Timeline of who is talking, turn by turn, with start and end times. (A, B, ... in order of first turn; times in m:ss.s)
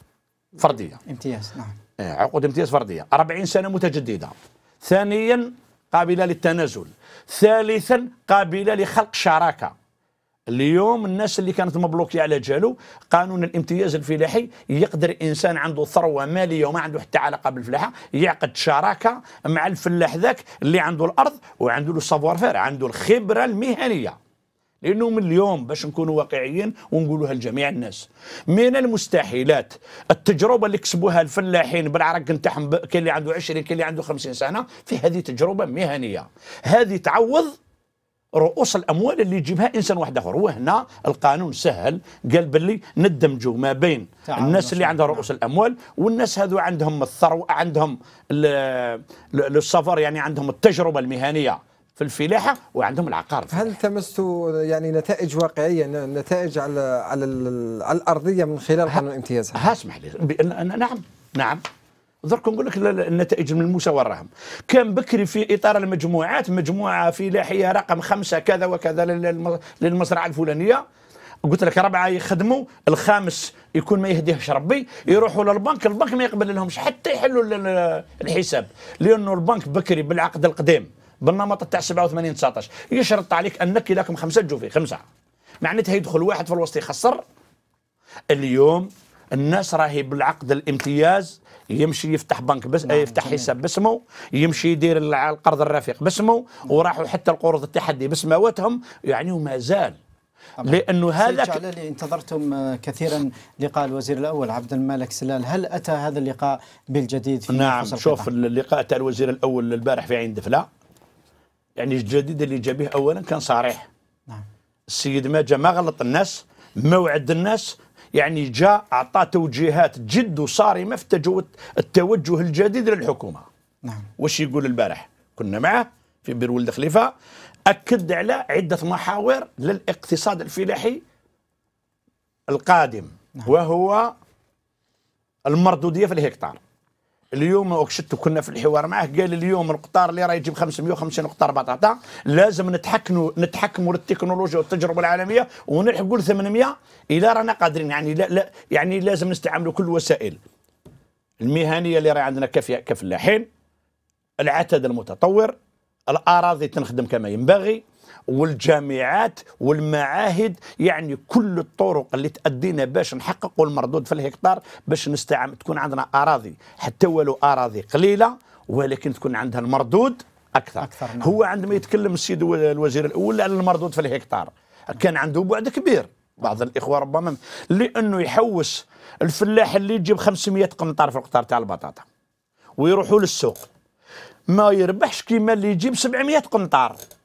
0:00.6-0:01.0 A
0:01.1-0:01.8 B
0:02.0-0:09.7 A
0:10.5-0:24.2 A
0:24.8-0:37.6 A
0:38.4-0:53.7 A
0:44.3-0:45.3 B
0:53.5-0:59.7 C
0:59.6-1:01.6 A
1:02.2-1:10.8 A
1:11.5-1:25.0 A
1:25.6-1:27.2 A
1:28.3-1:40.0 A
1:32.9-1:33.5 B
1:40.6-1:48.3 B
1:40.6-1:41.6 A
1:47.5-1:50.7 A
1:51.8-1:53.9 A
1:54.9-2:03.5 A
2:04.2-2:07.1 A
2:07.7-2:11.0 A
2:12.5-2:14.1 A
2:15.5-2:16.6 A
2:17.3-2:30.4 A
2:31.4-2:33.5 A
2:34.4-2:35.6 A
2:36.1-3:02.1 A
2:50.8-2:51.4 B
3:02.8-3:03.7 A
3:04.5-3:07.0 A